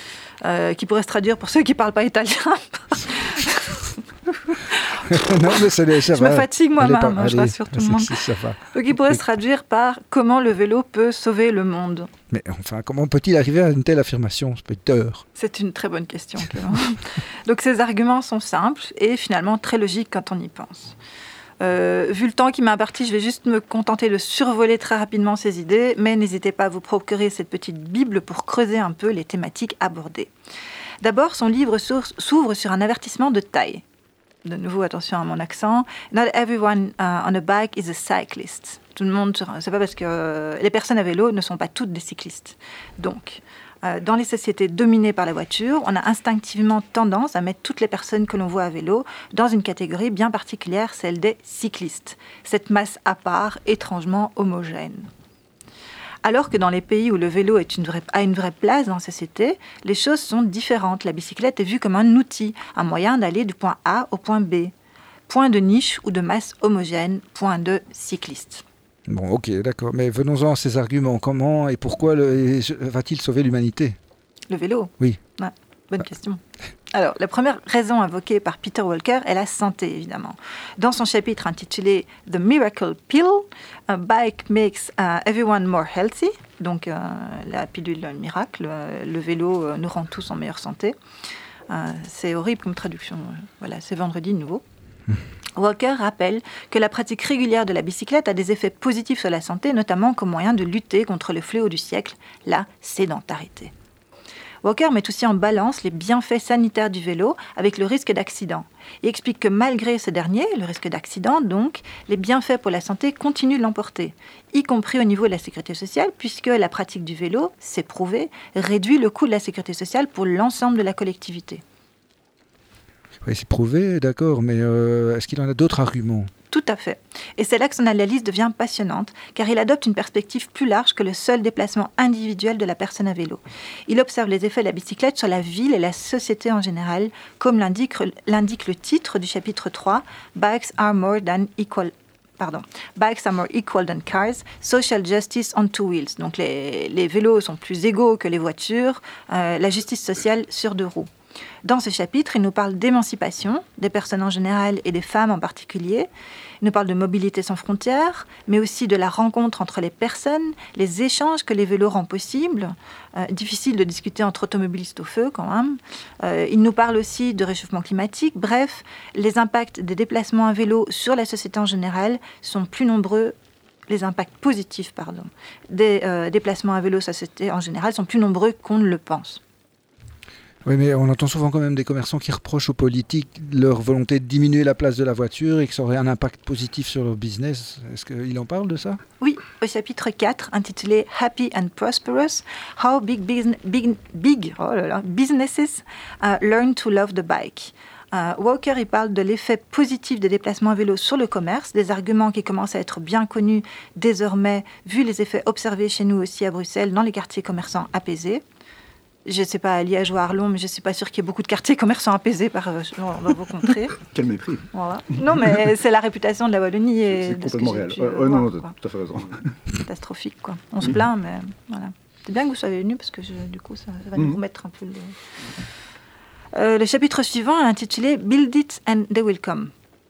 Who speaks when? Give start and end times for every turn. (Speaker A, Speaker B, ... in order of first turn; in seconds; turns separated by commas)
Speaker A: 0.4-8.2, Speaker B: 5.1-9.2, Speaker A: 8.7-12.1, Speaker B: 12.3-15.2, Speaker A: 15.4-21.0, Speaker A: 21.6-30.3, Speaker A: 31.0-33.8, Speaker A: 34.5-55.1, Speaker A: 56.2-64.7, Speaker A: 65.3-68.6, Speaker B: 69.1-74.0, Speaker A: 74.5-76.4, Speaker A: 76.9-91.0, Speaker A: 91.7-94.6, Speaker A: 95.6-103.7, Speaker A: 104.6-121.6, Speaker B: 123.2-126.3, Speaker A: 126.5-151.1, Speaker A: 151.6-156.1, Speaker A: 156.6-173.3, Speaker A: 173.9-179.4, Speaker B: 180.7-189.0, Speaker A: 189.2-208.4, Speaker A: 209.2-214.0, Speaker C: 214.0-214.7, Speaker A: 214.7-218.7, Speaker C: 217.1-219.5, Speaker A: 219.8-225.2, Speaker A: 226.5-229.7